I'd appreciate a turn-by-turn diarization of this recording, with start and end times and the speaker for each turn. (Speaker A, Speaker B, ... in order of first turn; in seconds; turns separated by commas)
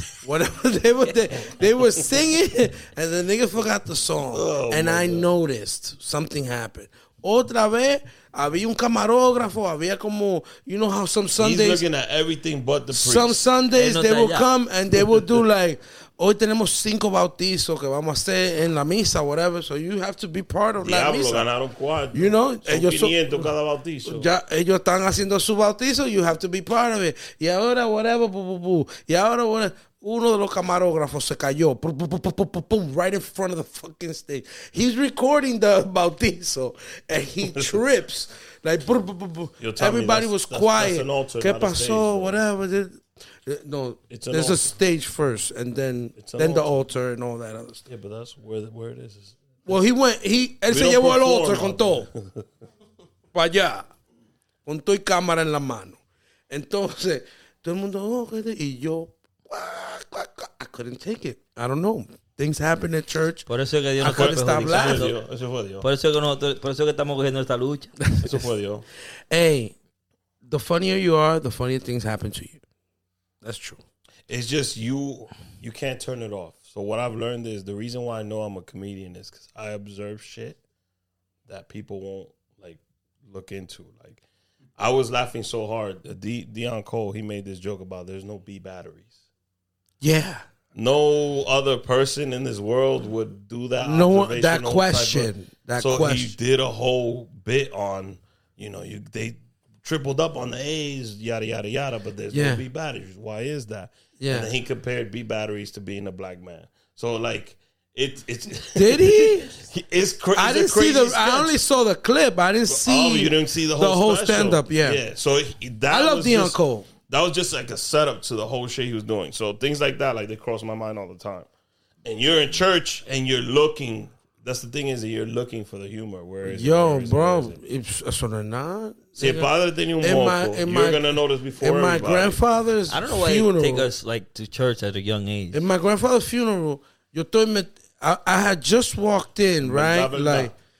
Speaker A: 0.2-11.8, Speaker B: 4.3-5.3, Speaker B: 11.4-13.4, Speaker A: 12.9-21.5, Speaker C: 13.7-14.5, Speaker B: 20.8-24.3, Speaker A: 22.1-23.5, Speaker A: 24.0-47.8, Speaker B: 37.5-37.8, Speaker B: 39.6-42.4, Speaker B: 44.1-44.7, Speaker B: 46.2-46.7, Speaker B: 47.9-49.4, Speaker A: 49.7-52.1, Speaker B: 50.7-52.4, Speaker A: 53.3-53.8, Speaker A: 54.6-56.0, Speaker A: 56.5-63.4, Speaker C: 63.5-65.2, Speaker A: 64.0-65.1, Speaker B: 64.0-65.8, Speaker C: 65.8-67.9, Speaker B: 68.2-68.8, Speaker A: 69.3-69.7, Speaker A: 70.5-72.6, Speaker A: 73.4-73.8, Speaker B: 74.3-80.6, Speaker B: 81.5-84.2, Speaker B: 84.8-89.1, Speaker A: 90.0-90.4, Speaker B: 90.7-111.5, Speaker A: 93.8-96.3, Speaker A: 102.3-102.6, Speaker A: 104.2-104.5, Speaker A: 108.7-109.5, Speaker A: 110.3-115.0, Speaker B: 112.7-121.5, Speaker A: 115.9-116.9, Speaker B: 122.0-127.5, Speaker A: 126.4-129.5, Speaker B: 129.2-132.4, Speaker A: 130.0-133.9, Speaker C: 132.9-135.6, Speaker A: 135.5-140.5, Speaker B: 139.6-140.5